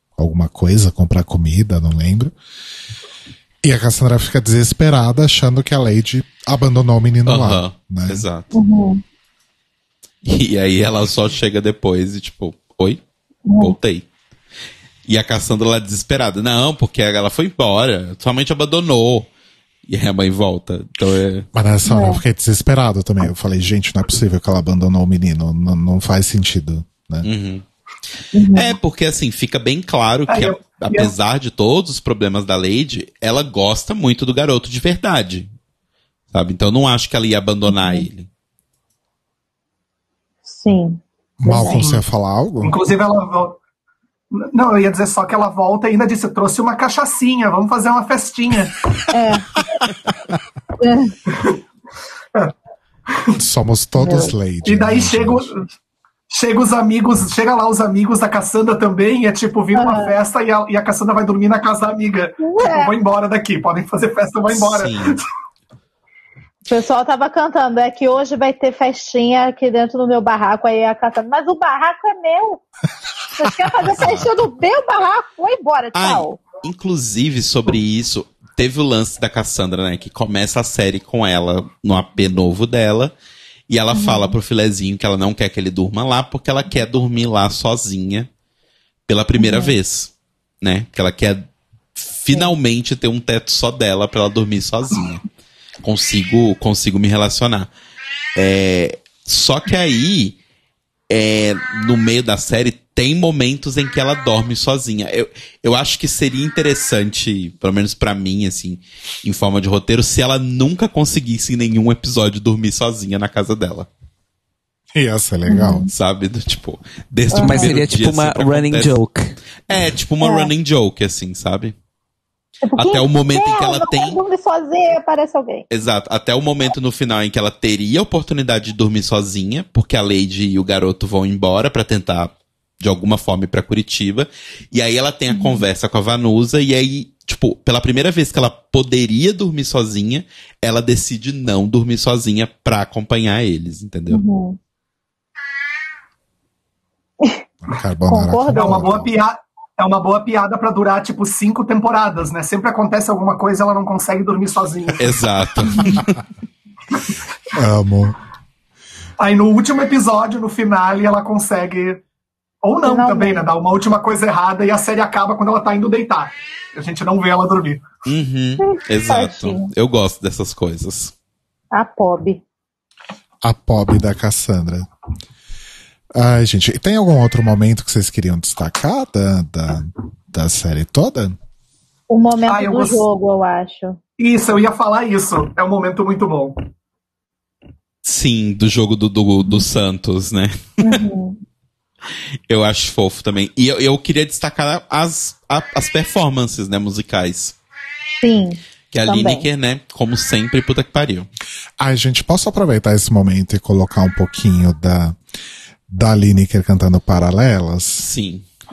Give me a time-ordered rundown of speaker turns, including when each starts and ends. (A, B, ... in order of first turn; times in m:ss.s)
0:00.2-0:02.3 A
0:03.6-0:08.2 A
0:07.2-0:08.5 B
0:08.5-0:09.0 C
0:10.2-0:13.0 B
0:13.5-0:13.8 C
0:13.6-0:14.0 B
0:15.0-0:19.3 B
0:19.9-0:21.5 B
0:21.5-0:27.3 A
0:21.9-0:22.2 C
0:27.2-0:27.6 B
0:28.3-0:28.8 C
0:28.5-0:35.5 B
0:30.3-0:31.1 D
0:36.3-0:38.3 B
0:37.7-0:38.1 C
0:40.4-0:41.9 C
0:41.4-0:42.8 A
0:41.5-0:42.0 D
0:42.6-0:43.6 D
0:44.3-0:48.8 D
0:49.1-0:49.8 C
0:50.8-0:51.2 C
0:51.3-0:51.6 D
0:53.1-0:53.4 D
0:53.3-0:55.5 A
0:54.0-0:54.3 C
0:54.6-0:55.7 D
0:56.3-1:05.2 D
0:59.7-1:00.1 C
1:02.4-1:02.9 C
1:04.5-1:05.2 B
1:06.7-1:12.6 C
1:13.3-1:16.4 C
1:13.9-1:14.3 B
1:15.9-1:23.1 B
1:23.7-1:28.3 B
1:23.9-1:24.4 C
1:29.1-1:31.4 B
1:29.4-1:29.7 C
1:32.0-1:35.3 B
1:35.8-1:37.7 B
1:38.4-1:40.4 B
1:41.1-1:53.9 B
1:54.9-1:55.9 A
1:55.5-1:55.9 C
1:55.9-1:59.0 B
1:57.3-1:57.8 C
1:57.4-1:59.3 E
1:59.7-2:01.7 B
2:00.2-2:00.5 C
2:02.6-2:05.6 C
2:02.8-2:04.2 B
2:05.7-2:24.2 B
2:15.3-2:15.6 C
2:24.1-2:24.6 C
2:27.7-2:29.1 A
2:28.1-2:28.8 C
2:28.5-2:35.1 D
2:35.0-2:36.0 B
2:37.5-2:38.2 A
2:39.2-2:42.0 D
2:42.6-2:47.8 D
2:42.8-2:43.4 C
2:48.0-2:51.1 B
2:48.6-2:49.7 C
2:51.7-2:52.4 C
2:53.4-2:54.9 A
2:56.1-3:01.4 A
3:02.1-3:04.0 C
3:02.5-3:03.0 D
3:04.2-3:06.6 D
3:08.0-3:11.0 B
3:10.8-3:11.4 C
3:12.5-3:17.6 B
3:18.2-3:19.4 C
3:18.9-3:21.3 B
3:21.8-3:25.2 A
3:25.9-3:28.1 A
3:28.0-3:28.4 B